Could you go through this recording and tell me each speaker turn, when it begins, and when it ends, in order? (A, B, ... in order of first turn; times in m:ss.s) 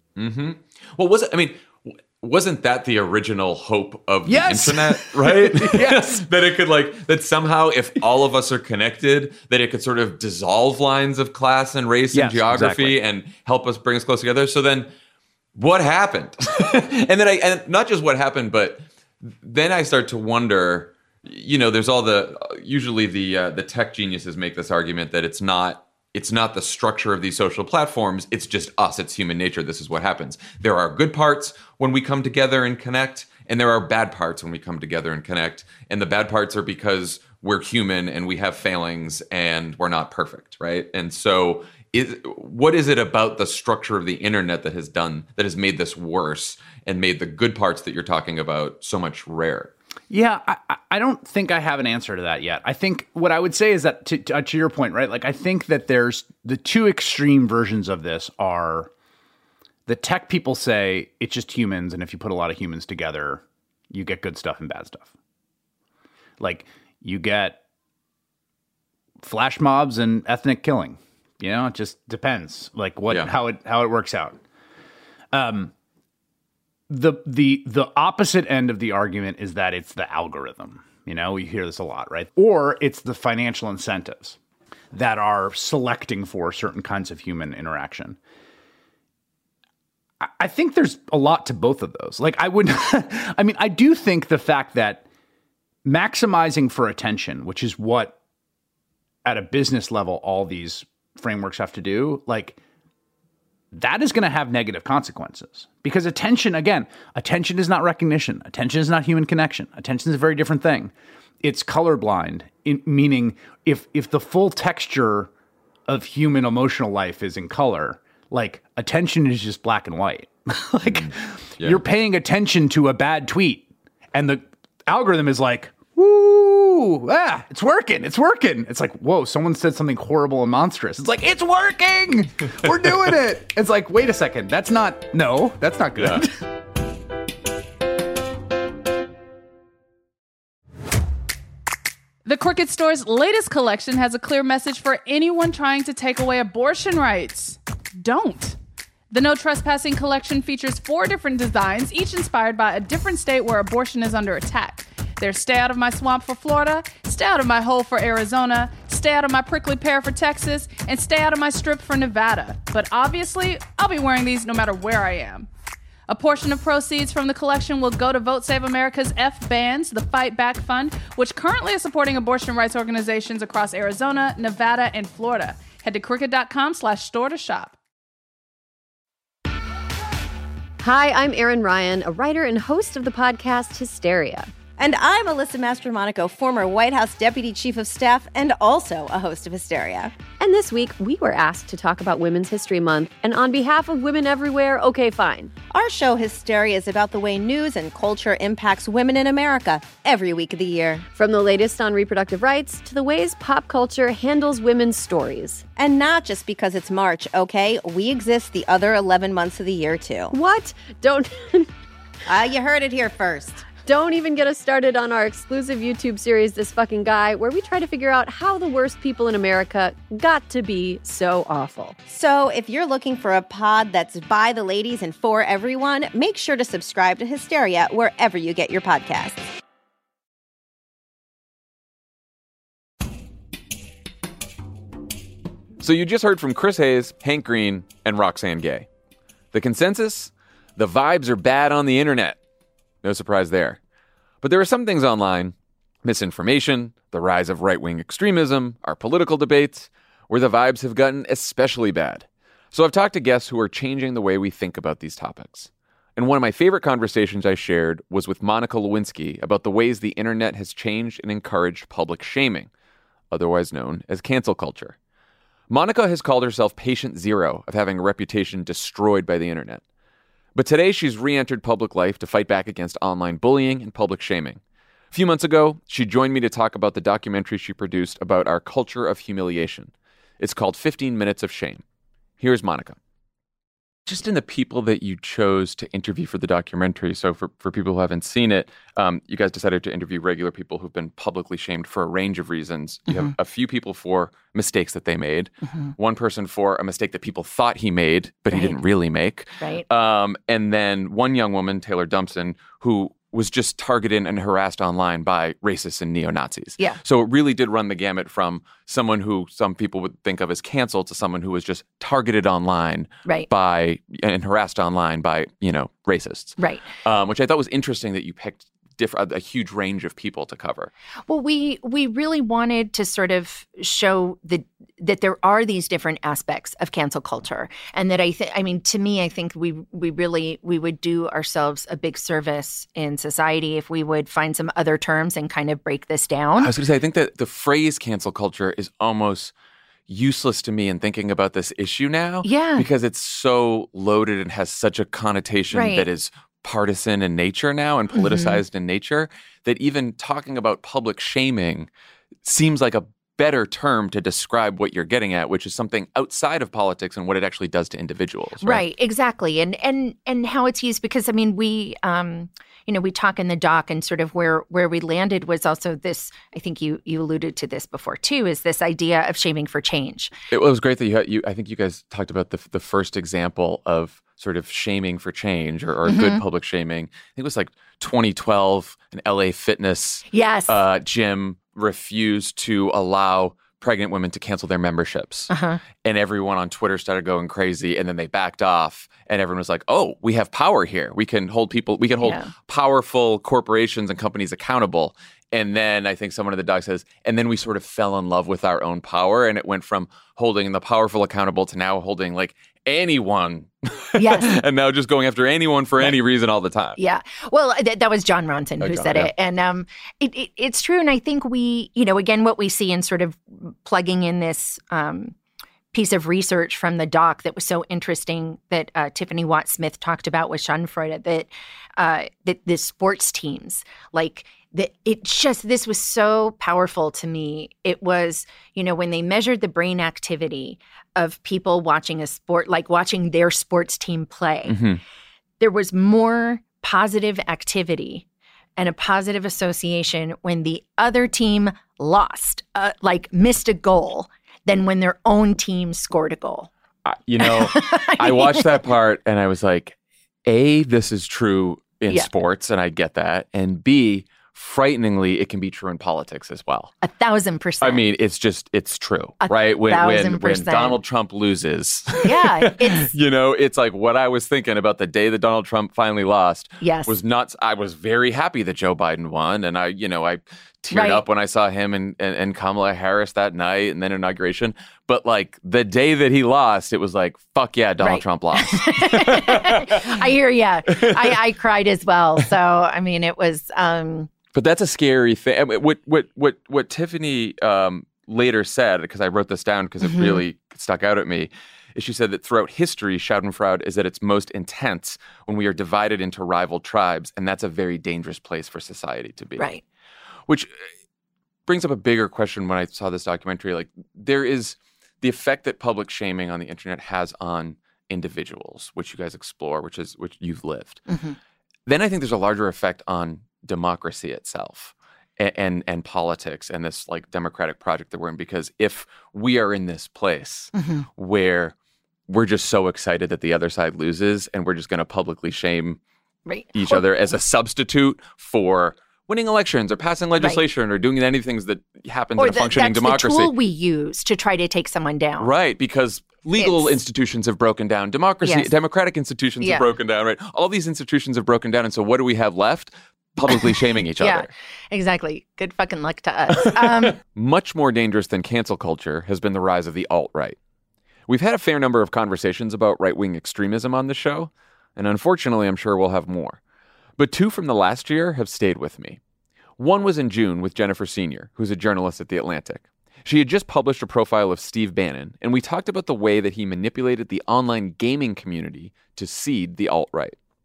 0:00.2-0:14.9 A
0:04.2-0:06.2 B
0:12.1-0:13.0 B
0:15.5-0:49.7 A
0:50.1-0:58.9 B
0:59.8-1:05.1 B
1:06.4-1:07.6 B
1:09.2-1:14.4 B
1:15.3-1:15.7 B
1:16.9-1:24.4 B
1:24.9-1:28.2 B
1:30.2-1:35.0 B
1:35.8-1:38.1 B
1:39.2-1:42.6 B
1:43.7-1:55.3 B
1:55.9-2:16.4 B
2:00.9-2:01.8 A
2:22.2-2:28.6 C
2:29.1-2:45.5 C
2:46.1-2:57.8 C
3:00.8-3:04.5 D
3:04.8-3:10.2 E
3:10.3-3:15.5 D
3:15.7-3:21.0 E
3:21.1-3:25.6 D
3:25.8-3:30.3 E
3:30.3-3:31.7 D
3:32.2-3:33.7 E
3:33.7-3:42.0 D
3:42.0-3:49.4 E
3:55.8-3:58.9 A
3:59.5-4:02.4 A
4:03.0-4:03.8 A
4:04.4-4:22.7 A
4:23.3-4:25.0 A
4:25.7-4:29.8 A
4:30.5-4:34.6 A
4:35.1-4:41.8 A
4:42.4-4:43.0 A
4:44.0-5:20.9 A
4:55.6-4:55.9 F
4:58.5-4:58.8 F
5:16.6-5:16.8 F
5:21.3-5:36.7 F
5:36.6-5:39.5 A
5:40.1-5:51.9 A
5:42.4-5:42.9 F
5:45.7-5:46.1 F
5:48.1-5:48.6 F
5:52.4-5:58.8 A
5:58.6-6:10.3 F
6:10.5-6:47.0 A
6:16.0-6:16.4 F
6:20.3-6:20.8 F
6:25.5-6:25.8 F
6:32.2-6:32.5 F
6:44.2-6:44.6 F
6:47.0-6:55.4 F
6:48.8-6:49.3 A
6:55.9-7:15.0 F
7:14.7-7:15.0 A
7:15.6-7:18.2 F
7:18.8-7:26.7 F
7:27.0-7:36.9 A
7:27.4-7:28.8 F
7:37.0-7:38.0 F
7:37.8-8:00.2 A
7:39.4-7:41.0 F
7:42.2-7:43.1 F
7:46.8-7:47.2 F
7:50.9-7:51.2 F
7:58.0-8:04.3 F
8:00.9-8:01.4 A
8:04.5-8:19.7 A
8:10.0-8:10.4 F
8:20.5-8:20.7 A
8:21.7-8:31.0 A
8:31.1-8:31.4 F
8:31.8-8:41.7 A
8:40.7-8:41.1 F
8:42.3-8:46.0 A
8:46.4-8:47.0 F
8:46.7-8:53.5 A
8:50.4-8:50.6 F
8:52.4-8:55.5 F
8:55.4-9:04.5 A
8:56.6-8:57.0 F
8:58.4-8:58.7 F
8:59.6-8:59.9 F
9:03.5-9:07.2 F
9:06.8-9:10.6 A
9:11.3-9:16.6 A
9:17.2-9:19.2 A
9:19.8-9:30.4 A